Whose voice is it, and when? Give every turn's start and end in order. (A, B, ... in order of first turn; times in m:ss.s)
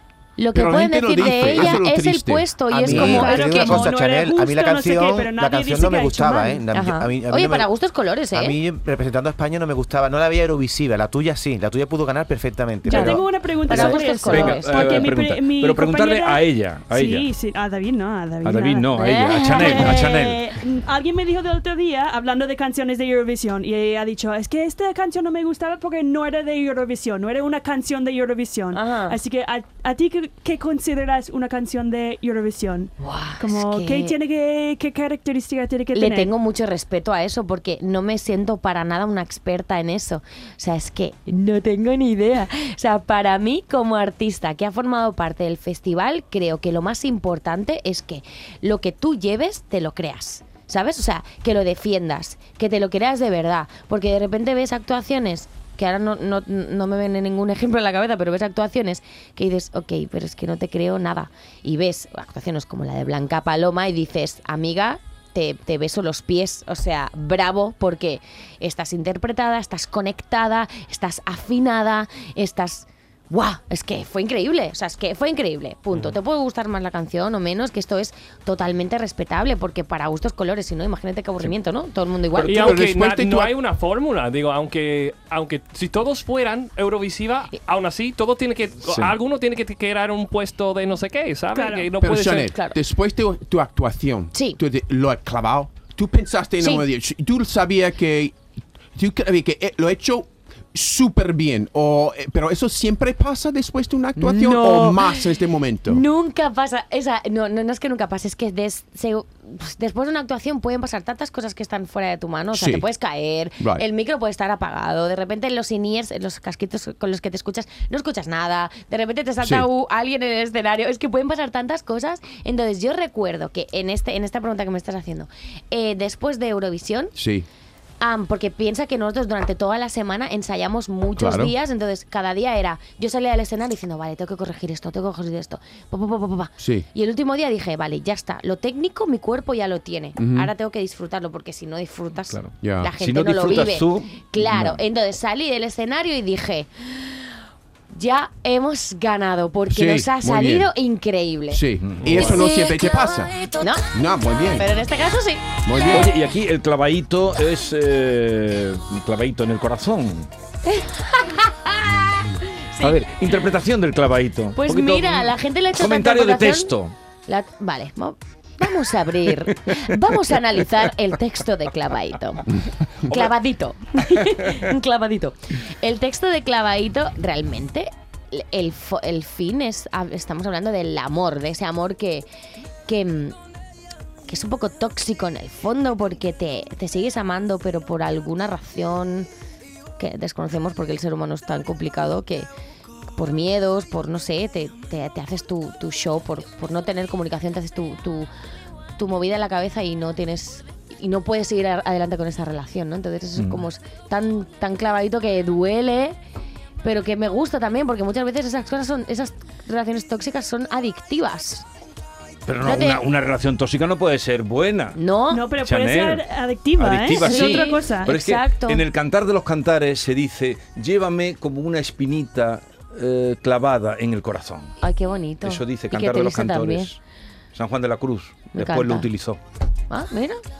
0:00.4-0:03.8 A
0:00.5-0:03.8 B
0:02.7-0:07.7 C
0:03.2-0:06.6 D
0:06.7-0:08.6 A
0:08.3-0:14.0 C
0:12.9-0:14.9 A
0:12.9-0:18.9 D
0:14.2-0:17.3 E
0:18.4-0:20.5 E
0:18.9-0:20.1 A
0:19.6-0:36.3 D
0:28.7-0:29.2 A
0:33.0-0:34.1 A
0:35.9-1:22.8 A
1:22.3-1:23.5 B
1:22.4-1:32.6 F
1:28.8-1:29.1 E
1:31.5-1:31.8 D
1:32.0-1:38.4 B
1:32.5-1:32.8 A
1:34.3-1:34.6 A
1:36.6-1:36.8 A
1:39.0-1:46.0 B
1:44.2-1:45.3 A
1:45.8-2:07.1 A
1:52.5-1:52.8 B
1:53.6-1:53.8 B
1:59.4-1:59.7 B
2:07.2-2:07.5 B
2:08.0-2:27.2 A
2:11.2-2:11.5 B
2:16.6-2:16.8 B
2:20.2-2:20.5 B
2:22.3-2:24.3 E
2:22.6-2:22.9 B
2:24.4-2:24.8 B
2:27.9-2:31.6 A
2:29.7-2:30.7 B
2:31.5-2:34.7 B
2:31.8-2:32.4 E
2:33.5-2:33.8 A
2:34.6-2:35.5 A
2:35.6-2:36.1 B
2:35.9-2:40.3 E
2:40.6-2:43.1 A
2:42.8-2:46.9 E
2:44.5-2:46.7 A
2:47.3-2:52.5 A
2:53.0-3:02.3 A
3:02.9-3:03.3 A
3:04.3-3:09.3 A
3:10.0-3:12.5 A
3:13.2-3:18.3 A
3:19.0-3:26.2 A
3:23.4-3:23.6 E
3:26.8-3:31.6 A
3:32.5-3:35.0 E
3:32.6-3:33.0 A
3:34.9-3:35.5 A
3:35.3-3:38.1 D
3:35.6-3:44.7 E
3:37.2-3:38.8 A
3:44.8-3:46.9 A
3:45.4-3:47.0 E
3:47.5-3:49.4 E
3:48.5-3:49.1 A
3:49.9-3:50.4 A